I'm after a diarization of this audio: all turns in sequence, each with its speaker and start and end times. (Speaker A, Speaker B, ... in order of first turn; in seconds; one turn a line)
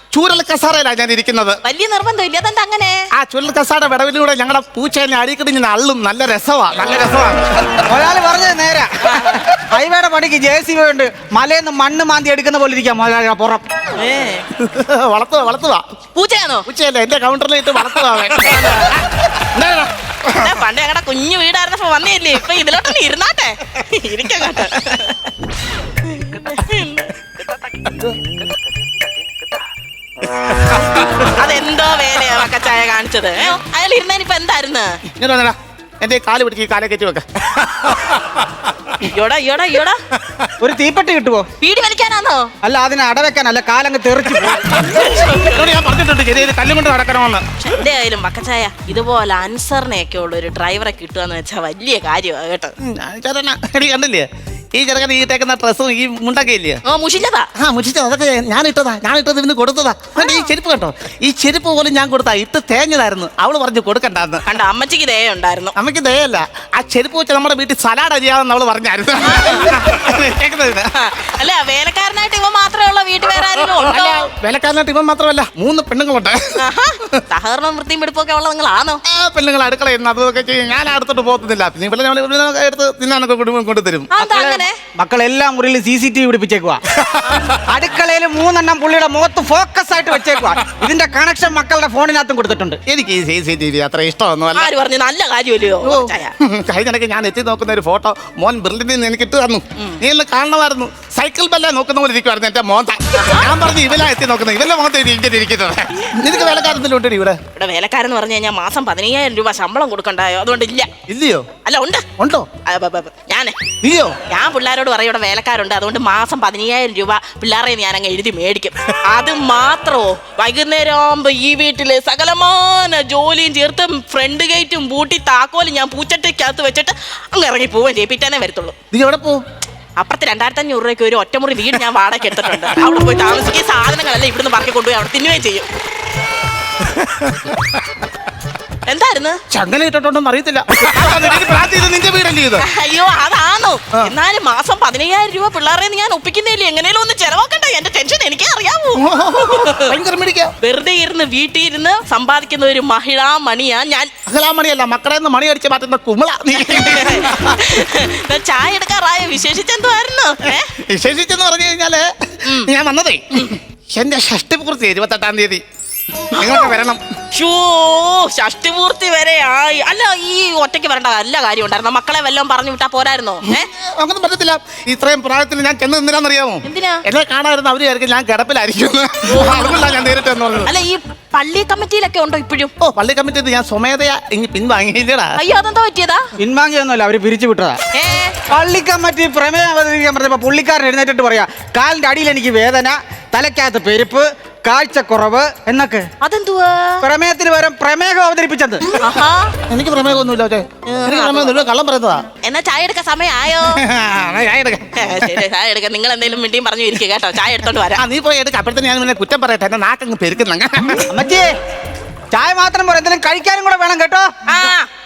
Speaker A: 0.1-1.6
Speaker B: 1.6-3.1
Speaker A: 3.1-7.7
Speaker C: 7.9-13.6
Speaker B: 9.0-9.5
Speaker B: 13.9-14.5
Speaker A: 14.6-15.8
Speaker B: 16.1-16.7
Speaker A: 16.6-20.5
Speaker B: 18.1-19.0
Speaker B: 20.3-25.3
Speaker B: 26.0-27.3
Speaker B: 31.1-35.0
Speaker A: 35.1-38.1
Speaker B: 39.0-40.0
Speaker C: 40.6-41.5
Speaker B: 41.6-42.5
Speaker C: 42.6-44.8
Speaker B: 44.7-45.8
Speaker A: 45.5-47.4
Speaker B: 47.6-52.7
Speaker A: 52.8-56.8
Speaker B: 56.8-57.5
Speaker A: 57.5-64.4
Speaker B: 60.1-60.5
Speaker B: 64.5-65.7
Speaker A: 65.7-70.9
Speaker B: 69.2-70.0
Speaker B: 70.9-74.2
Speaker A: 73.5-77.2
Speaker B: 76.6-79.0
Speaker A: 79.0-84.1
Speaker B: 84.1-84.8
Speaker C: 84.2-86.8
Speaker C: 87.5-92.8
Speaker A: 92.9-94.7
Speaker B: 94.5-96.3
Speaker A: 95.8-107.4
Speaker B: 103.2-103.5
Speaker B: 107.5-110.9
Speaker A: 111.1-111.5
Speaker B: 111.6-112.0
Speaker A: 112.2-112.5
Speaker B: 112.6-113.5
Speaker A: 113.8-114.2
Speaker B: 114.3-128.8
Speaker A: 128.9-129.4
Speaker B: 130.0-135.7
Speaker A: 136.8-137.5
Speaker B: 138.9-139.4
Speaker A: 139.5-142.6
Speaker B: 142.6-149.9
Speaker A: 148.9-150.5
Speaker B: 150.6-154.1
Speaker A: 154.3-157.8
Speaker B: 156.6-160.7
Speaker A: 160.6-165.6
Speaker A: 166.3-167.0
Speaker B: 166.3-166.7
Speaker B: 167.3-173.7
Speaker A: 173.4-180.7
Speaker B: 176.6-177.0
Speaker B: 179.3-180.0
Speaker B: 180.7-182.7
Speaker A: 182.8-185.3
Speaker B: 185.4-186.3
Speaker C: 186.4-187.8
Speaker B: 187.9-188.4
Speaker C: 188.5-196.1
Speaker B: 196.2-197.0
Speaker C: 197.0-198.8
Speaker B: 198.9-199.5
Speaker A: 199.7-202.2
Speaker B: 200.8-201.6
Speaker B: 202.4-203.8
Speaker A: 203.7-205.4
Speaker B: 205.0-208.0
Speaker A: 207.9-211.1
Speaker C: 211.1-211.5
Speaker C: 212.3-214.3
Speaker B: 214.4-214.9